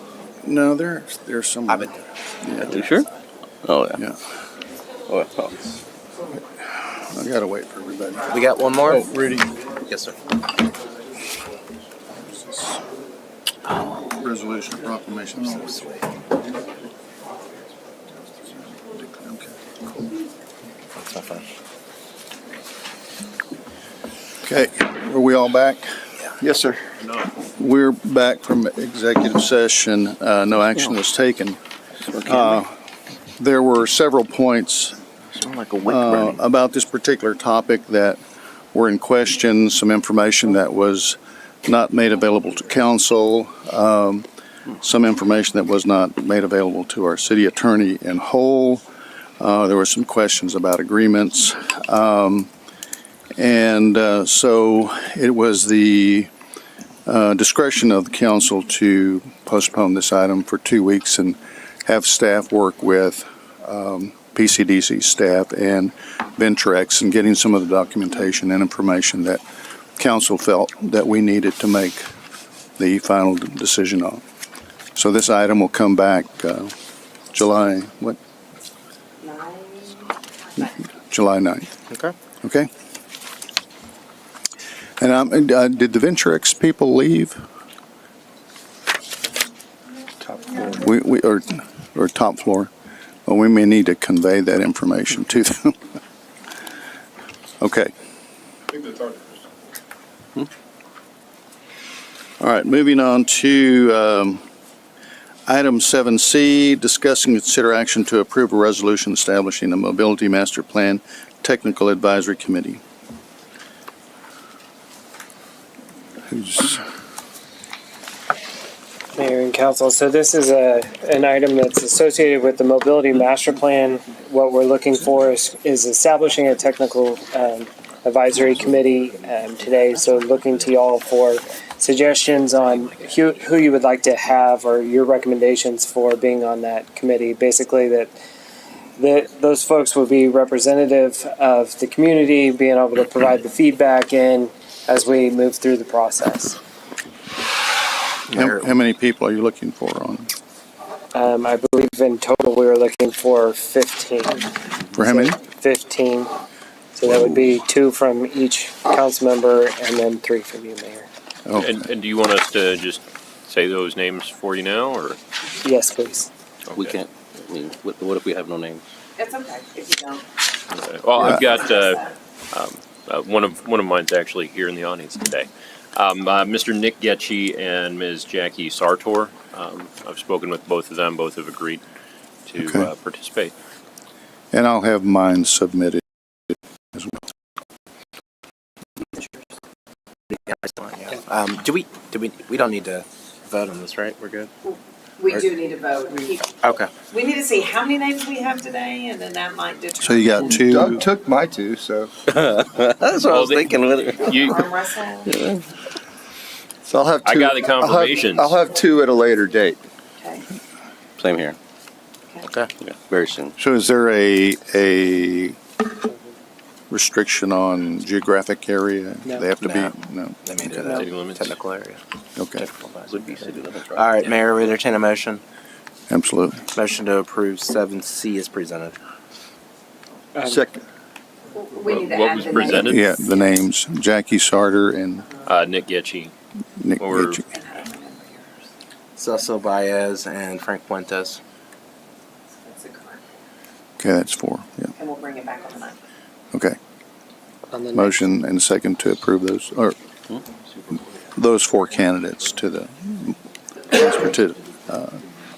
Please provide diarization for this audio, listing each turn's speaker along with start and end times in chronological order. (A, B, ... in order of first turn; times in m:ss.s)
0:00.4-0:02.8 A
0:01.7-0:02.0 B
0:02.6-0:03.1 C
0:03.6-0:04.0 C
0:05.1-0:05.6 C
0:06.7-0:09.5 A
0:08.3-0:09.1 B
0:09.8-0:10.2 B
0:12.2-0:12.8 A
0:13.7-0:15.7 A
0:15.4-0:16.0 B
0:18.6-0:19.5 A
0:21.0-0:21.4 B
0:24.4-0:26.8 A
0:27.0-0:27.3 D
0:27.6-0:31.6 A
0:32.1-0:32.6 C
0:32.2-0:32.8 A
0:33.4-0:35.0 A
0:35.3-0:36.4 C
0:35.8-0:38.2 A
0:38.7-0:44.3 A
0:44.8-0:48.8 A
0:49.4-0:52.5 A
0:53.4-0:56.3 A
0:57.0-1:09.4 A
1:10.0-1:12.0 A
1:12.8-1:14.2 A
1:15.0-1:16.7 A
1:17.3-1:18.2 A
1:19.2-1:20.1 E
1:20.7-1:21.7 A
1:22.4-1:22.7 A
1:25.0-1:27.4 A
1:30.5-1:32.7 A
1:33.2-1:35.8 A
1:37.6-1:37.9 A
1:42.4-1:44.4 A
1:45.5-1:52.8 A
1:56.3-1:56.8 A
1:59.1-2:18.1 F
2:19.0-2:26.6 F
2:28.3-2:30.3 A
2:28.3-2:28.6 B
2:31.1-2:36.3 F
2:34.9-2:35.4 A
2:36.9-2:41.1 F
2:41.4-2:41.8 A
2:41.5-2:45.2 D
2:45.6-2:46.3 F
2:46.6-2:47.0 D
2:46.7-2:48.8 C
2:49.2-2:50.2 E
2:50.7-3:01.8 D
2:51.2-2:52.0 E
3:02.4-3:03.5 D
3:02.6-3:02.9 A
3:04.5-3:06.0 A
3:06.9-3:07.2 A
3:10.3-3:14.5 B
3:14.6-3:20.4 E
3:16.6-3:16.9 B
3:20.0-3:21.0 A
3:20.5-3:22.1 G
3:22.3-3:24.6 C
3:23.1-3:24.7 D
3:24.3-3:25.3 E
3:25.2-3:25.6 C
3:26.8-3:29.8 G
3:27.2-3:28.6 D
3:30.2-3:30.4 E
3:31.2-3:31.6 C
3:32.8-3:33.5 C
3:33.6-3:35.6 A
3:36.9-3:40.8 A
3:39.2-3:39.6 F
3:40.4-3:42.0 B
3:40.8-3:41.5 D
3:42.4-3:42.7 A
3:42.5-3:45.4 B
3:43.0-3:44.3 C
3:46.1-3:46.6 A
3:46.7-3:49.0 B
3:50.4-3:50.8 G
3:51.5-3:53.6 E
3:51.8-3:53.2 D
3:52.7-3:55.3 A
3:55.4-3:56.3 D
3:56.8-3:57.4 A
3:57.0-3:57.4 D
3:57.5-3:58.6 E
3:59.2-4:01.4 B
4:02.5-4:03.3 E
4:04.0-4:04.9 A
4:05.0-4:06.0 E
4:07.7-4:08.2 F
4:07.9-4:10.0 A
4:11.4-4:15.2 A